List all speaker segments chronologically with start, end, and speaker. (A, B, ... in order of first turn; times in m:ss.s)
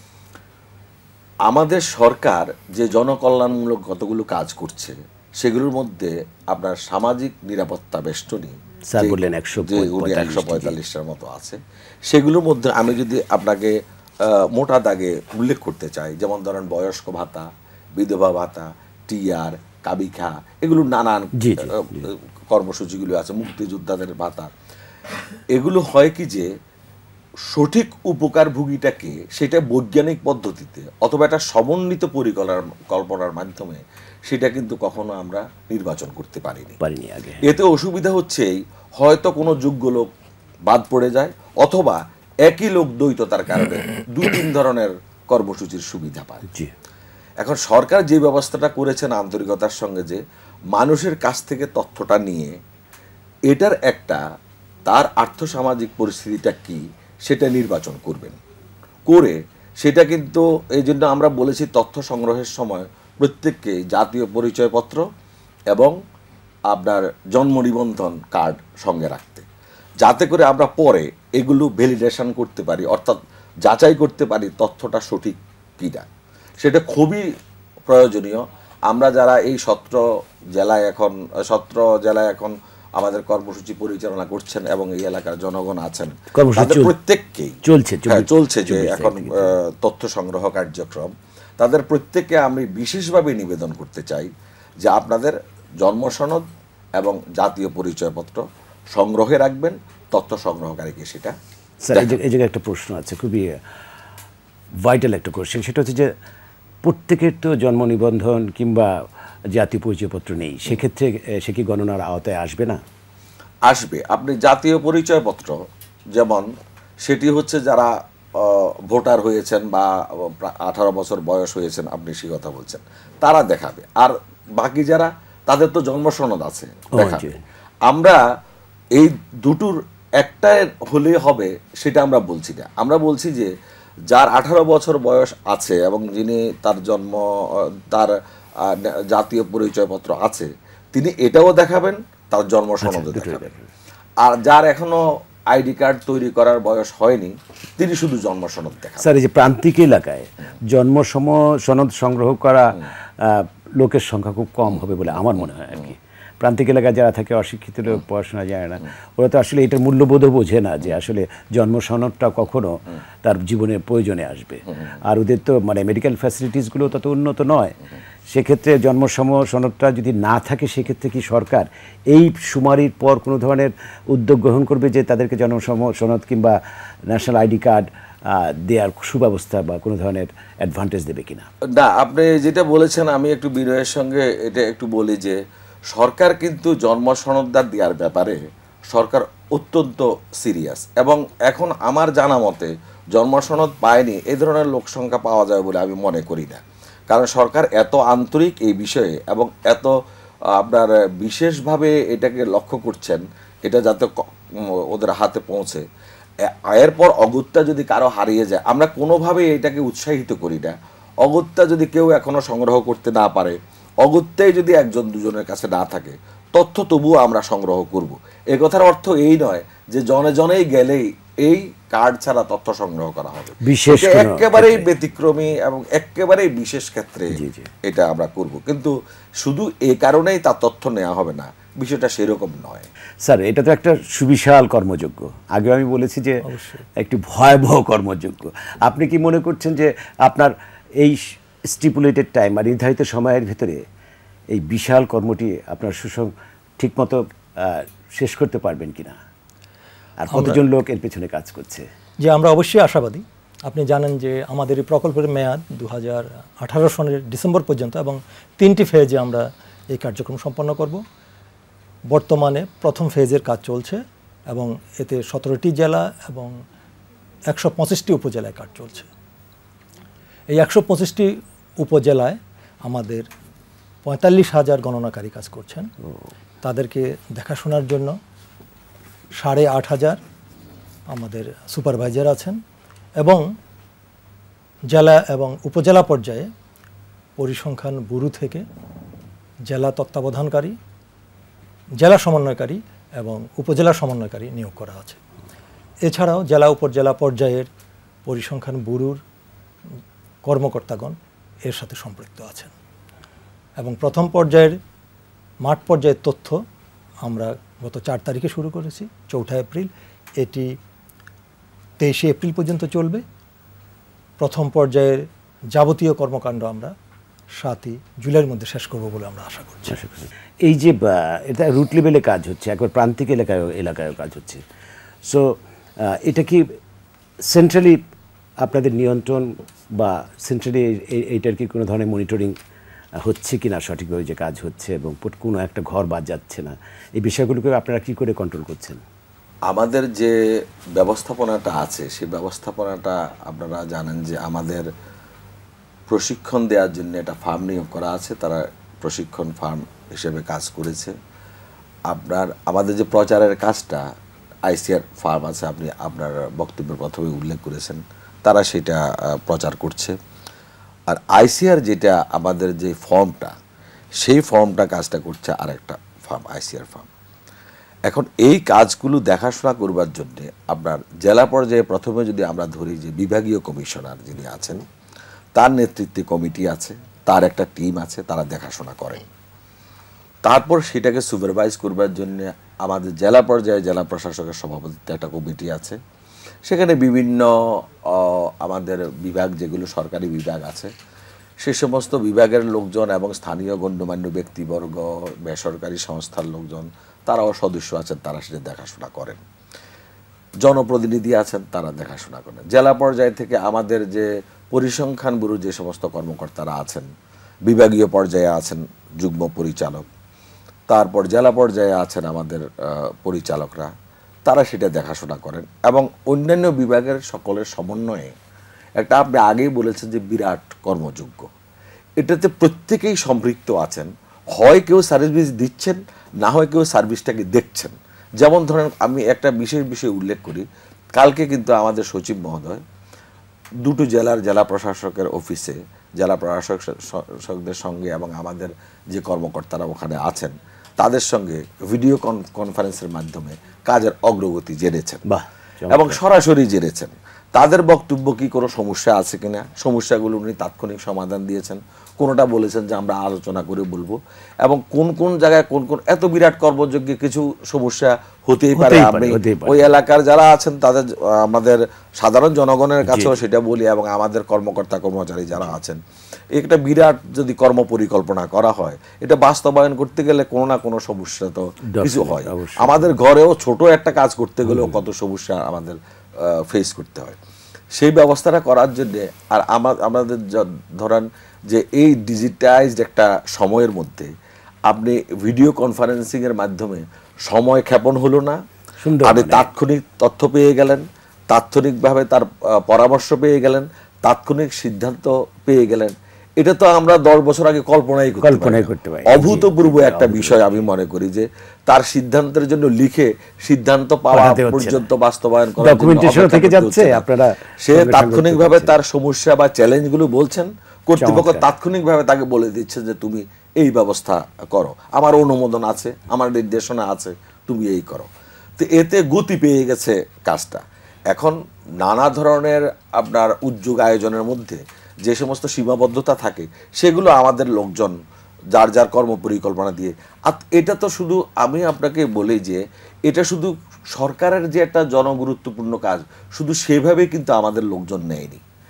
0:01.4-0:24.5 A
0:08.9-0:10.8 B
0:21.4-0:22.0 B
0:25.5-0:26.5 A
0:27.5-0:36.8 A
0:36.8-0:37.5 B
0:37.4-0:40.1 A
0:40.6-0:46.4 A
0:47.4-0:50.2 A
0:50.7-0:52.5 A
0:53.5-0:54.2 A
0:54.8-0:58.4 A
0:59.1-1:05.0 A
1:06.7-1:09.4 A
1:10.0-1:16.1 A
1:16.6-1:17.3 A
1:17.9-1:20.0 A
1:20.5-1:27.6 A
1:26.3-1:26.9 B
1:27.6-1:29.5 B
1:28.1-1:34.3 A
1:34.8-1:36.4 A
1:37.0-1:38.4 A
1:38.9-1:41.3 A
1:41.8-1:43.6 B
1:44.8-1:46.1 B
1:46.8-1:48.9 B
1:49.5-1:52.8 B
1:53.6-1:55.6 A
1:56.1-1:56.5 A
1:57.0-2:07.3 A
2:07.0-2:07.4 B
2:07.9-2:08.2 A
2:09.0-2:13.5 A
2:14.1-2:23.5 A
2:22.8-2:23.6 B
2:24.2-2:25.0 A
2:25.5-2:29.1 A
2:29.0-2:47.8 B
2:48.3-2:56.6 B
2:57.1-3:01.5 B
3:01.7-3:05.4 A
3:05.9-3:08.4 A
3:08.9-3:19.9 A
3:20.5-3:25.8 A
3:26.4-3:52.9 A
3:43.6-3:44.9 B
3:47.3-3:47.7 B
3:53.2-3:56.4 B
3:56.4-3:56.8 C
3:57.0-4:03.8 B
4:04.5-4:09.2 B
4:10.2-4:11.8 B
4:10.3-4:10.6 C
4:12.2-4:21.0 C
4:22.1-4:26.6 C
4:27.5-4:29.1 C
4:30.5-4:33.2 C
4:34.0-4:35.9 C
4:36.6-4:38.2 C
4:39.4-4:40.2 C
4:41.1-4:42.6 C
4:43.2-4:43.5 C
4:44.9-4:46.5 C
4:47.4-4:48.6 C
4:49.7-4:50.8 C
4:52.0-4:55.2 C
4:56.0-4:57.7 C
4:58.2-4:59.2 C
5:00.4-5:02.7 C
5:03.8-5:04.8 C
5:05.6-5:06.6 C
5:07.2-5:10.8 C
5:12.0-5:13.2 C
5:14.4-5:16.9 C
5:17.6-5:20.0 C
5:19.9-5:24.6 B
5:25.2-5:26.6 B
5:27.5-5:28.0 B
5:28.6-5:32.5 B
5:33.2-5:39.0 B
5:39.7-5:40.3 A
5:40.9-5:44.8 A
5:46.1-5:51.1 A
5:52.1-5:54.0 A
5:54.6-6:00.1 A
6:01.1-6:03.5 A
6:04.2-6:07.1 A
6:08.1-6:14.8 A
6:15.6-6:19.2 A
6:20.4-6:26.0 A
6:26.6-6:27.5 A
6:28.1-6:30.9 A
6:31.6-6:39.4 A
6:40.6-6:47.1 A
6:47.7-6:50.0 A
6:50.9-6:53.9 A
6:54.4-6:58.3 A
6:59.0-7:01.5 A
7:02.2-7:12.8 A
7:13.8-7:25.2 A
7:25.3-7:26.2 B
7:25.9-7:46.0 A
7:38.7-7:39.9 B
7:43.0-7:43.4 B
7:46.5-7:57.4 A
7:51.9-7:53.1 B
7:54.7-7:54.9 B
7:57.9-8:04.3 A
8:04.9-8:08.6 A
8:09.0-8:09.7 B
8:09.2-8:27.2 A
8:18.4-8:20.8 B
8:24.3-8:25.1 B
8:25.8-8:29.0 B
8:27.8-8:48.2 A
8:31.2-8:31.7 B
8:48.7-8:58.6 A